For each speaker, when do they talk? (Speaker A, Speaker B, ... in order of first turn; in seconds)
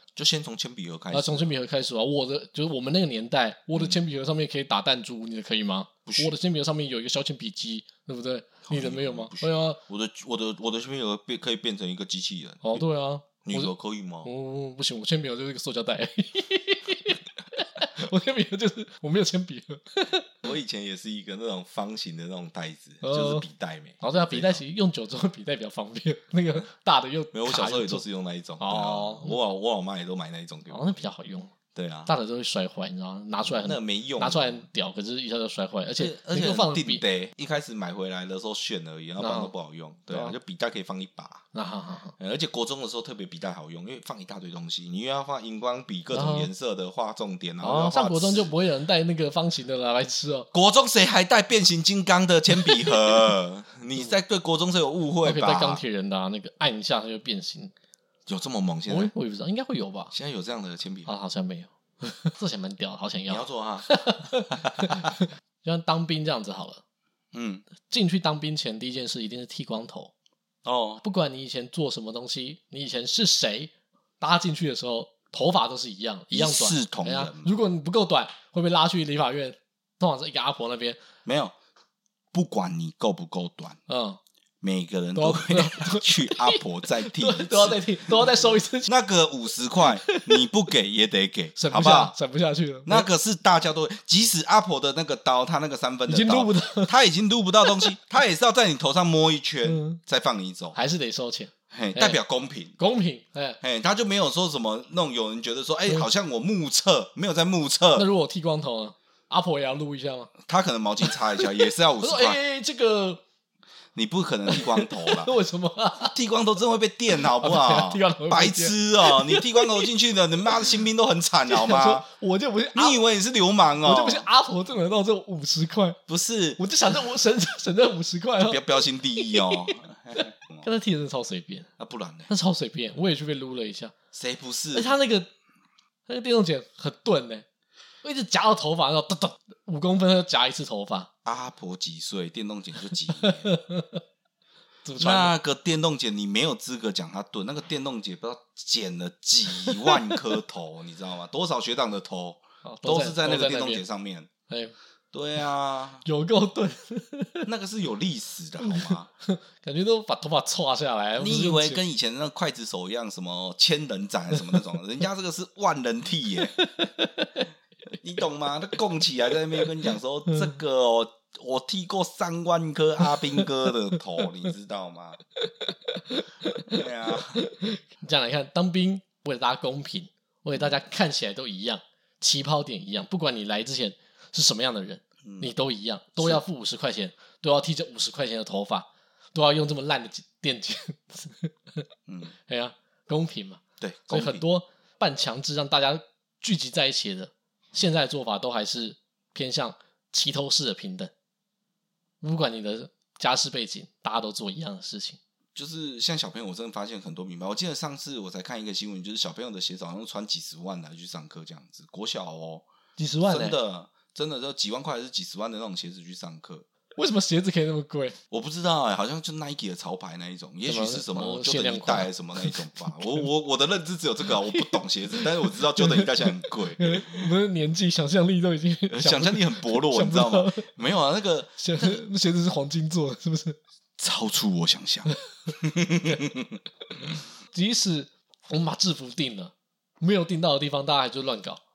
Speaker A: 0.1-1.5, 6.0-6.3, 8.7-12.8, 13.4-14.3, 20.4-24.6, 27.3-31.0, 31.7-32.1, 33.4-34.6, 36.0-41.4, 42.2-48.5, 50.5-55.8, 58.3-59.1, 60.1-61.1, 63.3-63.9, 64.5-65.1, 67.3-67.6, 70.6-71.0, 76.3-77.5, 81.2-81.5, 82.3-83.8, 84.6-92.1, 92.8-100.8, 101.7-102.7, 103.6-108.1, 110.4-112.4, 113.9-115.3, 116.0-122.0, 122.7-124.3, 126.1-126.6, 128.4-130.7, 131.8-132.3, 134.1-134.9, 141.2-143.5, 145.0-154.3, 155.1-156.0, 157.4-159.1, 161.2-166.6, 168.0-175.2, 176.7-177.4, 185.2-185.5, 193.8-194.4, 205.5-212.7, 213.2-216.7, 218.3-227.3, 228.9-232.0, 234.0-236.6
Speaker B: 1.1-9.8, 12.6-13.7, 14.2-20.4, 23.0-23.4, 24.0-28.0, 28.6-29.4, 30.7-31.5, 32.1-37.0, 39.2-39.5, 40.1-40.3, 41.5-42.1, 46.1-46.5, 47.6-50.5, 52.6-53.0, 55.2-57.7, 58.9-60.1, 61.0-66.8, 67.8-70.1, 71.0-81.0, 83.9-84.2, 85.2-88.9, 89.9-90.4, 91.6-93.1, 96.1-96.9, 97.6-97.9, 99.6-100.0, 100.7-102.2, 102.8-103.6, 107.9-110.3, 111.0-113.2, 114.5-116.2, 117.3-119.9, 120.5-120.8, 121.5-123.0, 123.8-126.0, 126.6-129.8, 130.6-131.7, 132.3-133.9, 134.7-135.3, 136.1-137.4, 138.0-141.1, 143.2-144.0, 144.8-145.3, 149.5-150.2, 152.6-153.8, 154.5-154.7, 156.0-157.5, 158.6-161.8, 166.6-167.4, 170.3-170.5, 173.0-173.4, 175.4-176.8, 177.4-191.8, 192.4-201.1, 202.2-205.2, 213.0-213.6, 216.9-218.2, 220.7-223.2, 224.3-230.7, 231.6-233.6, 237.5-241.6